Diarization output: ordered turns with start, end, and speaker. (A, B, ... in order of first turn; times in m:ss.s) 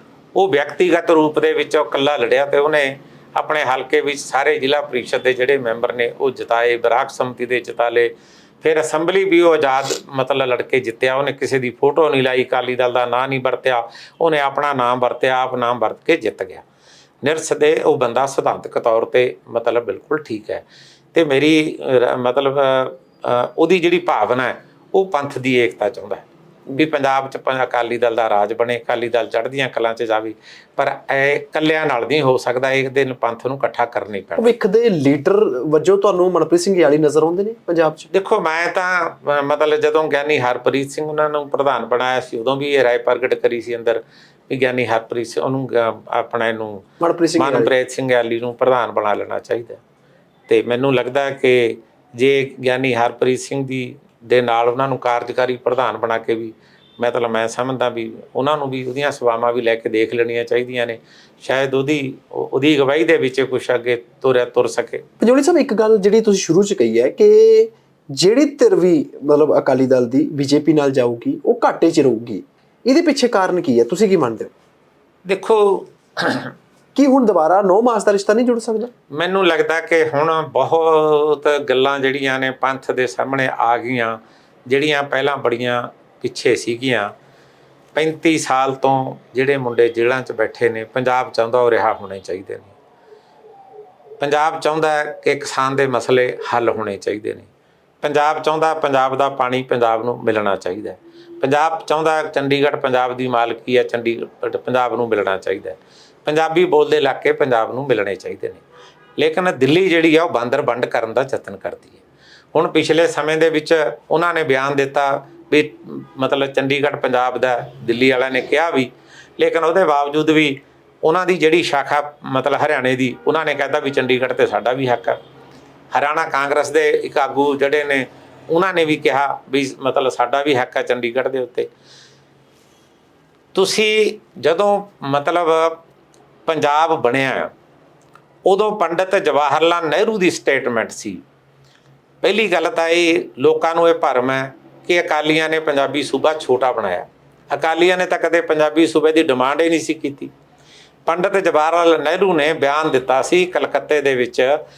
0:00.4-0:16.6 A
0:17.2-0:34.5 A
0:34.4-0:38.1 B
0:38.1-0:49.8 A
0:47.0-0:47.7 B
0:50.5-1:05.1 A
1:05.2-1:14.5 B
1:15.2-1:16.6 A
1:17.0-1:18.9 B
1:19.1-1:27.1 A
1:28.0-1:32.7 A
1:34.2-1:37.5 A
1:38.0-1:48.6 A
1:49.2-1:52.0 A
1:52.5-2:05.2 A
2:05.9-2:11.7 A
2:13.5-2:15.8 A
2:16.5-2:17.5 A
2:18.4-2:21.2 A
2:22.2-2:30.3 A
2:31.1-2:34.6 A